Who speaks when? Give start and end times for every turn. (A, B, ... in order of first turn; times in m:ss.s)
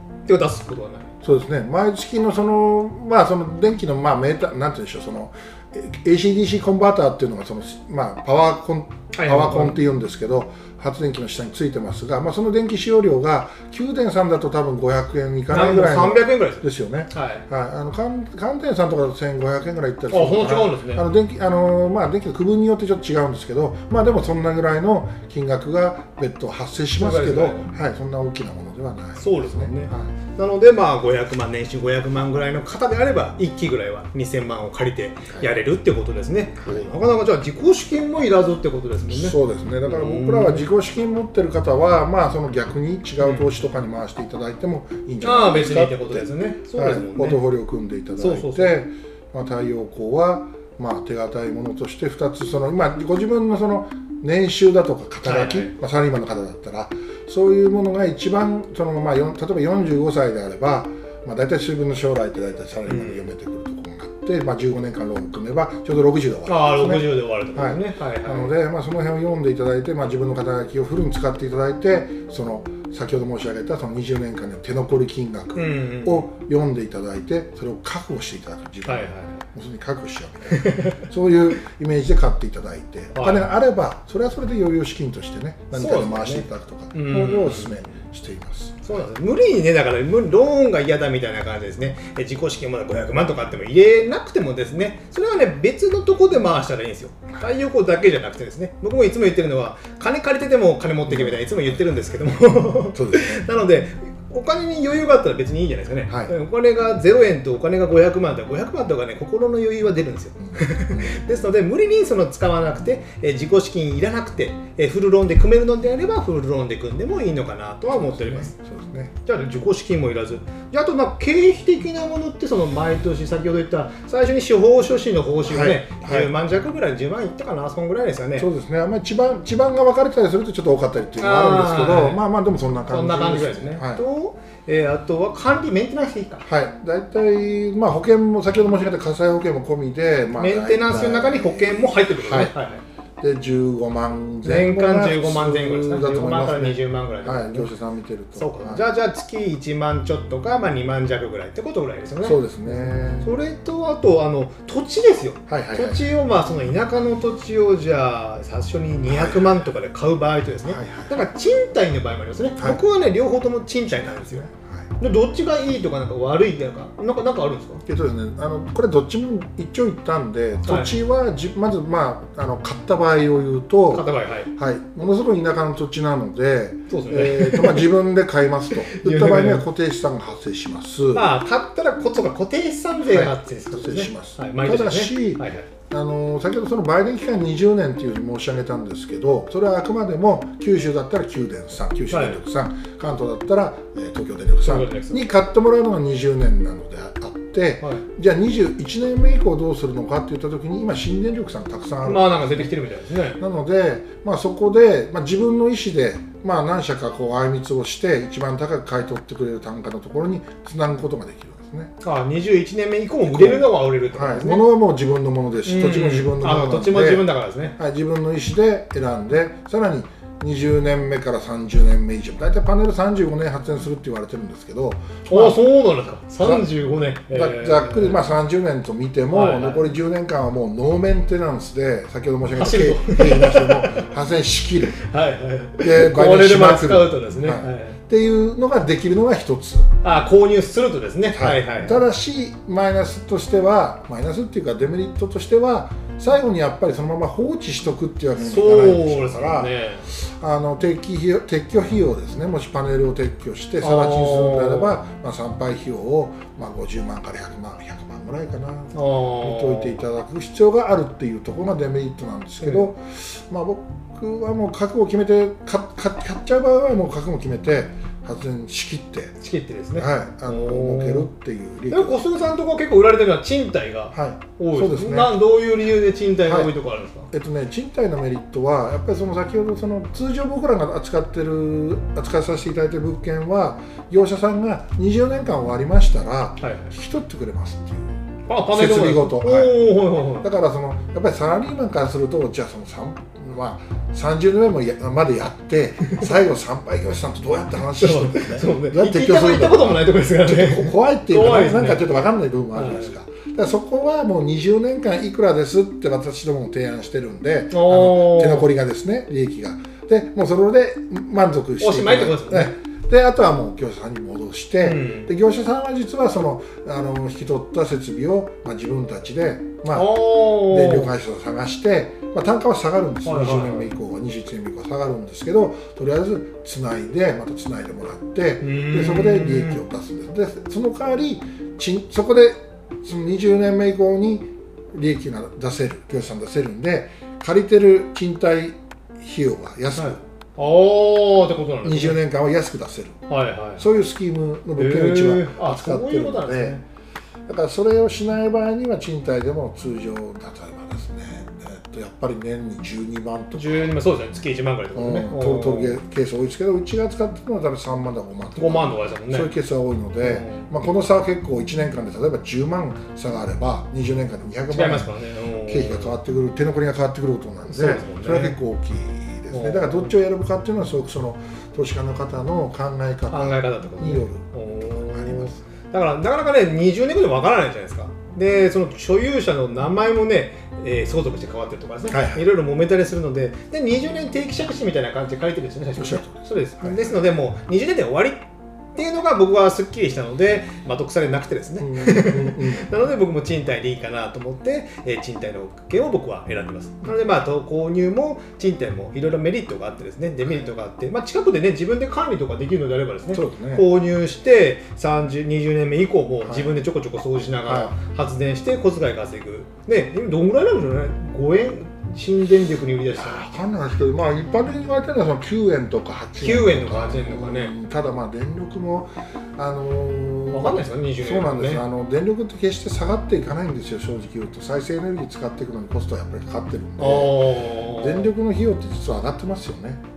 0:00.3-0:01.1 A
0:01.2-0:30.1 B
0:09.1-0:09.8 A
0:15.5-0:17.4 A
0:20.1-0:21.0 A
0:27.0-0:27.7 A
0:29.2-0:40.7 A
0:39.1-1:29.1 B
0:43.2-0:43.5 A
0:45.2-0:47.4 A
0:48.2-0:48.8 A
0:55.2-0:55.7 A
1:02.9-1:03.3 A
1:06.5-1:08.6 A
1:15.6-1:16.3 A
1:18.8-1:19.4 A
1:20.5-1:21.0 A
1:23.1-1:23.5 A
1:25.7-1:27.8 A
1:28.8-1:58.6 A
1:41.1-1:42.0 B
1:42.9-1:43.5 B
1:46.1-1:46.3 B
1:50.5-1:51.2 B
1:57.9-1:59.1 B
1:59.2-2:08.5 A
2:05.5-2:06.3 B
2:08.4-2:14.0 B
2:11.2-2:12.2 A
2:12.9-2:16.4 A
2:16.4-2:22.5 B
2:20.4-2:22.8 A
2:23.2-2:28.9 B
2:24.4-2:27.7 A
2:28.4-2:44.4 A
2:32.2-2:33.3 B
2:35.5-2:36.1 B
2:39.0-2:39.7 B
2:40.6-2:41.3 B
2:43.9-2:44.9 B
2:45.0-2:47.8 A
2:47.8-3:01.3 B
2:50.6-2:51.0 A
2:53.9-2:54.5 A
2:56.9-2:57.9 A
2:58.8-2:59.6 A
3:01.1-3:05.7 A
3:03.1-3:22.7 B
3:12.1-3:12.4 A
3:14.6-3:15.2 A
3:22.0-3:23.4 A
3:23.4-3:31.9 B
3:32.0-3:34.7 A
3:33.2-3:45.6 B
3:35.6-3:37.8 A
3:45.3-3:48.2 A
3:46.4-3:46.7 B
3:47.3-3:55.0 B
3:49.3-3:49.9 A
3:52.6-3:54.0 A
3:54.9-3:58.0 A
3:55.8-3:59.9 B
4:00.0-4:02.0 A
4:01.3-4:29.4 B
4:08.4-4:10.1 A
4:13.8-4:15.0 A
4:18.9-4:20.0 A
4:22.6-4:22.9 A
4:29.4-4:31.3 A
4:30.0-4:32.3 B
4:31.9-4:37.3 A
4:34.1-4:35.4 B
4:36.4-4:36.7 B
4:37.3-5:40.2 B
4:46.6-4:46.9 A
4:48.5-4:50.5 A
4:56.0-4:56.3 A
4:58.0-5:02.1 A
5:02.7-5:03.1 A
5:07.7-5:08.7 A
5:11.8-5:12.7 A
5:14.8-5:15.3 A
5:19.9-5:21.1 A
5:23.2-5:23.9 A
5:28.6-5:29.8 A
5:40.0-5:42.2 A
5:41.8-5:43.3 B
5:43.3-5:43.9 A
5:43.8-5:46.8 B
5:44.8-5:46.8 A
5:47.5-5:54.0 B
5:53.6-5:56.0 A
5:55.0-6:15.6 B
5:58.6-5:59.5 A
6:00.2-6:00.7 A
6:04.7-6:06.2 A
6:07.7-6:08.6 A
6:09.5-6:10.1 A
6:13.3-6:28.4 A
6:22.1-6:22.5 B
6:26.0-6:27.2 B
6:29.0-6:53.5 A
6:31.8-6:32.9 B
6:43.3-6:43.9 B
6:46.4-6:46.8 B
6:47.6-6:47.9 B
6:53.1-7:10.0 B
6:56.4-6:57.8 A
7:00.5-7:01.8 A
7:07.0-7:08.3 A